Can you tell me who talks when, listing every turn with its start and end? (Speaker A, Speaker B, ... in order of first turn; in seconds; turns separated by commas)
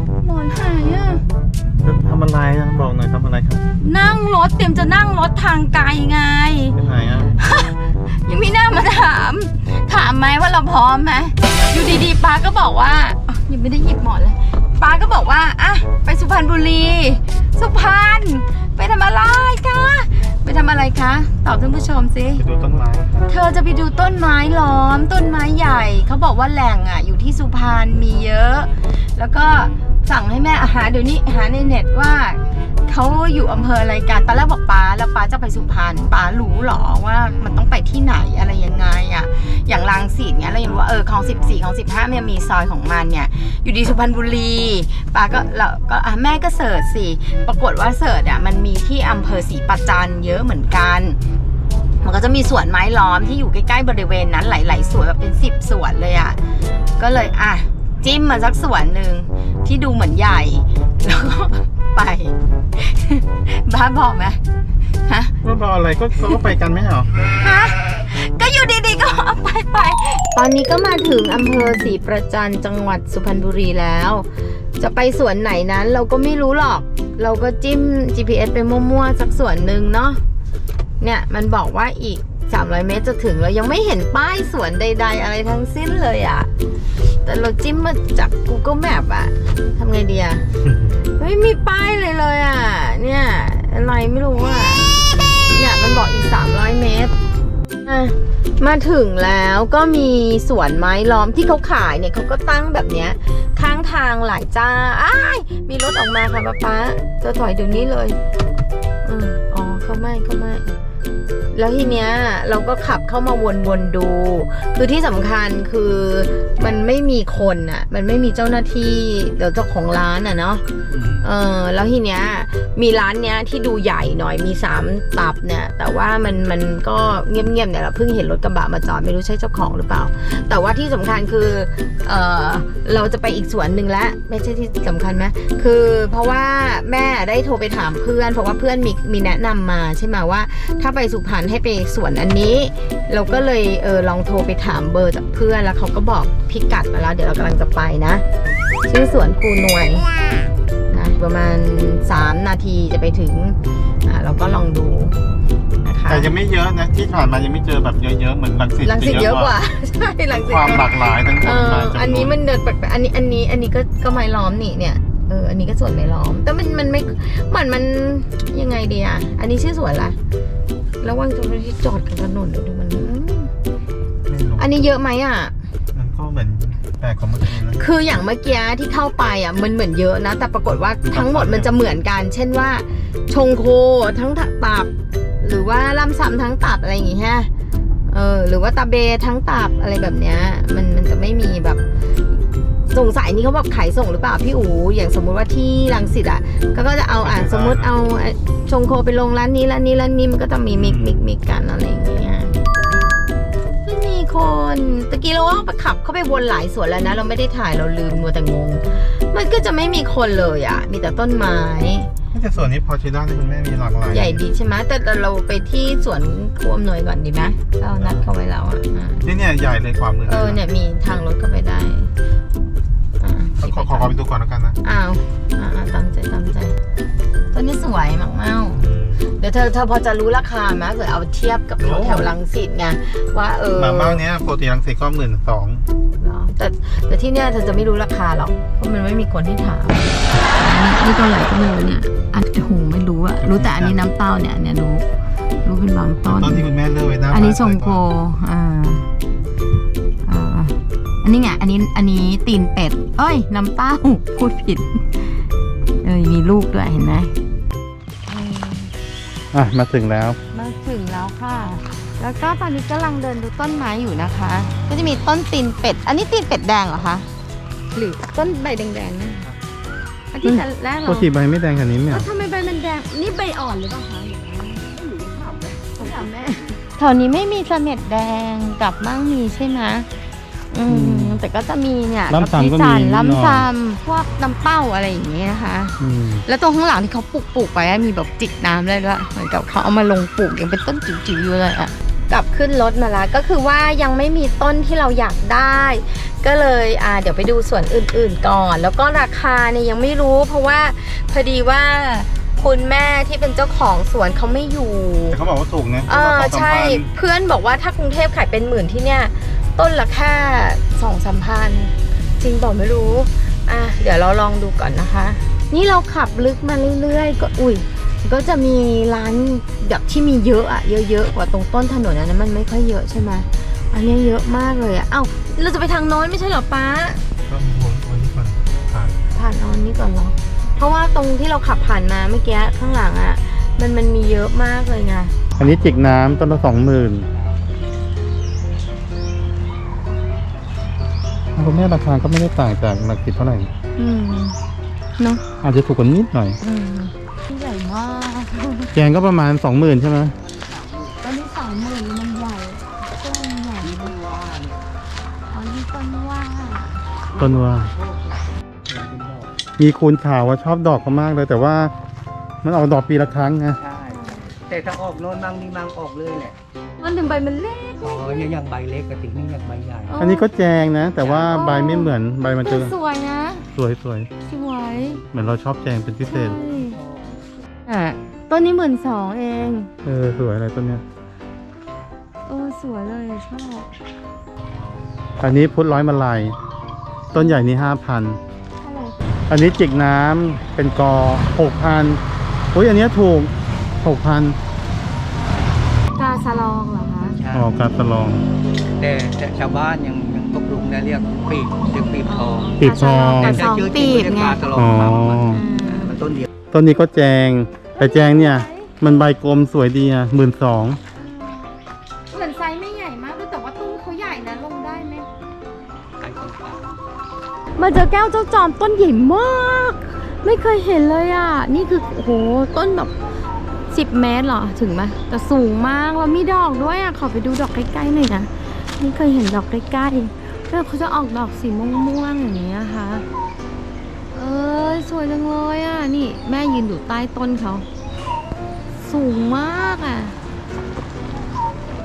Speaker A: 0.2-1.2, Speaker B: 1.8-3.6, Speaker A: 3.8-6.8, Speaker B: 6.8-7.3, Speaker A: 7.3-22.4, Speaker B: 22.4-23.3, Speaker A: 23.3-51.2, Speaker A: 52.0-56.4, Speaker A: 57.0-64.4, Speaker A: 65.0-65.3, Speaker B: 65.4-67.1, Speaker A: 67.2-80.2, Speaker A: 81.0-86.5, Speaker A: 87.2-90.5, Speaker A: 91.2-94.9, Speaker A: 95.5-97.1, Speaker A: 97.8-108.2, Speaker A: 109.0-110.8, Speaker A: 111.5-120.6, Speaker B: 120.9-121.2, Speaker A: 121.2-148.2, Speaker A: 148.9-150.1, Speaker A: 150.9-155.2, Speaker A: 155.8-156.3, Speaker B: 156.1-159.5, Speaker A: 158.8-170.2, Speaker B: 160.3-162.4, Speaker A: 171.0-173.5, Speaker B: 174.3-174.8, Speaker A: 174.6-175.5, Speaker B: 175.9-177.8, Speaker A: 177.5-187.5, Speaker B: 181.0-181.7, Speaker A: 188.1-202.6, Speaker B: 197.2-197.9, Speaker B: 200.7-201.2, Speaker A: 203.8-212.1, Speaker B: 212.3-214.4, Speaker A: 214.1-219.2, Speaker B: 218.0-218.3, Speaker B: 219.2-220.6, Speaker A: 220.2-222.1, Speaker A: 223.2-224.1, Speaker B: 223.6-224.8, Speaker A: 224.8-226.8, Speaker A: 227.5-234.2, Speaker B: 228.7-229.3, Speaker B: 231.8-232.3, Speaker B: 233.8-235.8, Speaker A: 236.2-245.1, Speaker B: 243.4-244.0, Speaker A: 245.6-246.7, Speaker B: 246.3-248.0, Speaker A: 247.3-249.1, Speaker A: 250.2-255.5, Speaker A: 256.0-257.3, Speaker A: 258.3-258.9, Speaker B: 259.5-260.4, Speaker A: 260.5-267.3, Speaker A: 267.9-269.5, Speaker A: 270.3-271.3, Speaker B: 270.4-272.2, Speaker A: 272.1-280.1, Speaker C: 275.7-276.1, Speaker A: 280.7-305.4, Speaker B: 280.9-281.4, Speaker B: 282.3-283.7, Speaker B: 286.0-286.4, Speaker B: 305.3-307.1, Speaker A: 306.1-327.2, Speaker B: 327.5-329.2, Speaker A: 329.3-335.4, Speaker B: 335.6-337.3, Speaker B: 341.5-343.7, Speaker A: 344.0-344.6, Speaker A: 345.2-345.4, Speaker B: 345.6-346.6, Speaker A: 346.6-348.9, Speaker B: 348.9-350.4, Speaker C: 350.4-351.2, Speaker A: 351.2-354.2, Speaker C: 353.8-354.8, Speaker A: 355.5-357.0, Speaker C: 357.3-358.4, Speaker B: 357.4-357.9, Speaker C: 358.9-359.6, Speaker B: 359.8-361.9, Speaker B: 362.6-363.8, Speaker C: 363.8-366.6, Speaker A: 364.1-364.5, Speaker A: 367.0-368.5, Speaker C: 368.0-370.1, Speaker A: 370.1-370.5, Speaker B: 370.2-372.9, Speaker C: 371.2-371.6, Speaker A: 371.4-373.7, Speaker B: 373.7-374.3, Speaker A: 374.4-375.2, Speaker C: 374.9-375.2, Speaker B: 375.3-376.6, Speaker A: 376.2-377.0, Speaker C: 376.5-377.5, Speaker A: 377.9-379.9, Speaker B: 380.0-381.0, Speaker A: 382.5-383.9, Speaker B: 385.4-386.6, Speaker B: 387.3-388.4, Speaker A: 387.3-387.7, Speaker A: 388.8-389.1, Speaker B: 389.5-392.2, Speaker B: 392.7-394.6, Speaker A: 396.1-397.4, Speaker C: 397.4-397.7, Speaker B: 397.5-398.4, Speaker C: 399.0-402.8, Speaker A: 402.2-404.6, Speaker B: 402.8-403.6, Speaker C: 403.3-406.5, Speaker B: 404.7-405.6, Speaker A: 405.5-406.1, Speaker B: 406.7-411.0, Speaker A: 407.9-409.0, Speaker A: 411.1-411.7, Speaker A: 412.3-415.3, Speaker C: 416.2-417.0, Speaker A: 417.8-423.1, Speaker A: 423.9-433.2, Speaker A: 434.3-437.9, Speaker A: 439.0-440.3